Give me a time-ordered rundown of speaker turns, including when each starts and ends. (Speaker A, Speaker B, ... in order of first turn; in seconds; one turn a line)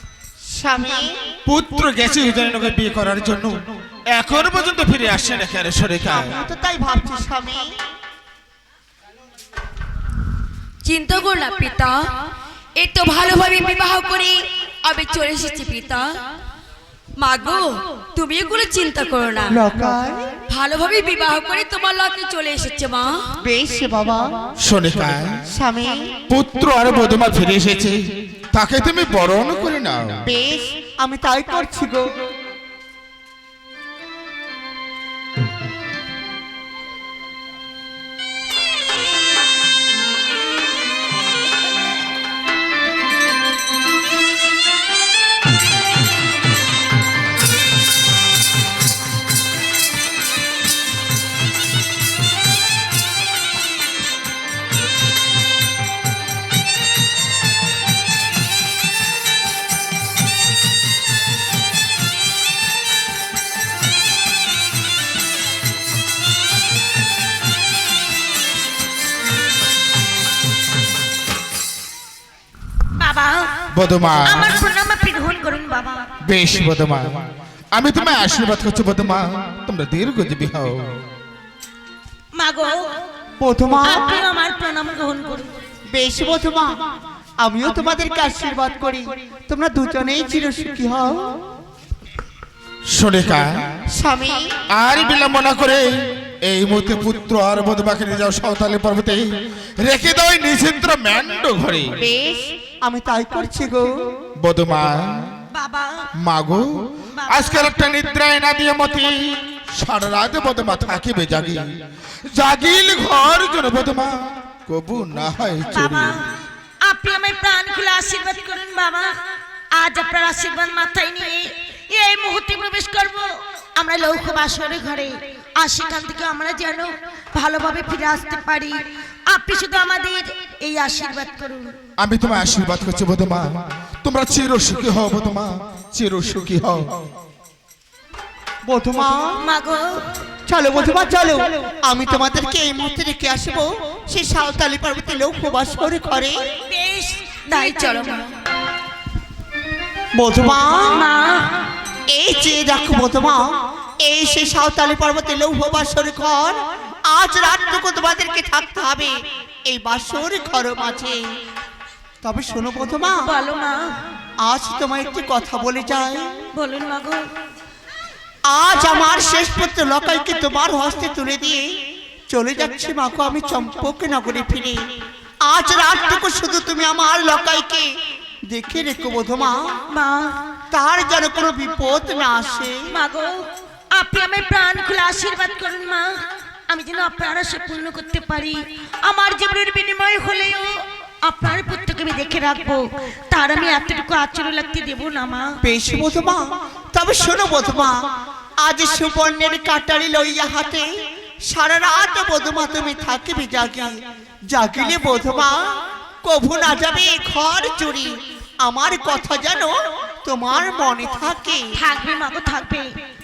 Speaker A: 0.4-1.3
Speaker B: 1.5-3.6
Speaker B: 4.1-6.3
Speaker A: 6.1-7.7
Speaker C: 10.8-12.0
Speaker C: 12.8-16.1
Speaker C: 17.2-19.6
Speaker A: 19.5-20.4
Speaker C: 20.5-23.2
Speaker A: 23.4-24.3
Speaker B: 24.6-25.4
Speaker A: 25.5-26.1
Speaker B: 26.3-28.0
Speaker B: 28.5-30.2
Speaker A: 30.2-32.1
Speaker D: 72.9-73.6
Speaker B: 73.7-74.6
Speaker D: 74.2-76.0
Speaker B: 76.2-80.9
Speaker D: 82.3-82.9
Speaker A: 83.4-84.2
Speaker D: 83.8-85.5
Speaker A: 85.9-86.8
Speaker A: 87.4-91.4
Speaker B: 92.9-93.8
Speaker A: 93.9-94.5
Speaker B: 94.7-99.2
Speaker B: 99.8-101.9
Speaker A: 102.0-104.0
Speaker B: 104.4-105.4
Speaker D: 105.5-106.1
Speaker B: 106.2-111.7
Speaker D: 107.1-107.8
Speaker B: 112.3-116.2
Speaker D: 115.7-119.1
Speaker D: 119.7-131.8
Speaker B: 132.0-136.9
Speaker A: 138.7-139.5
Speaker D: 139.4-140.1
Speaker A: 140.5-146.5
Speaker D: 146.6-148.2
Speaker C: 147.5-148.3
Speaker A: 150.1-151.1
Speaker D: 150.7-151.6
Speaker A: 152.1-159.1
Speaker A: 159.7-161.2
Speaker A: 162.2-163.2
Speaker D: 163.2-163.9
Speaker A: 164.4-166.3
Speaker D: 166.5-167.2
Speaker A: 168.4-171.8
Speaker A: 172.3-174.9
Speaker A: 175.4-177.9
Speaker A: 178.5-179.8
Speaker D: 179.9-180.4
Speaker A: 180.7-182.9
Speaker D: 182.9-195.5
Speaker A: 195.6-198.0
Speaker A: 198.6-200.9
Speaker A: 201.4-211.7
Speaker D: 211.8-212.9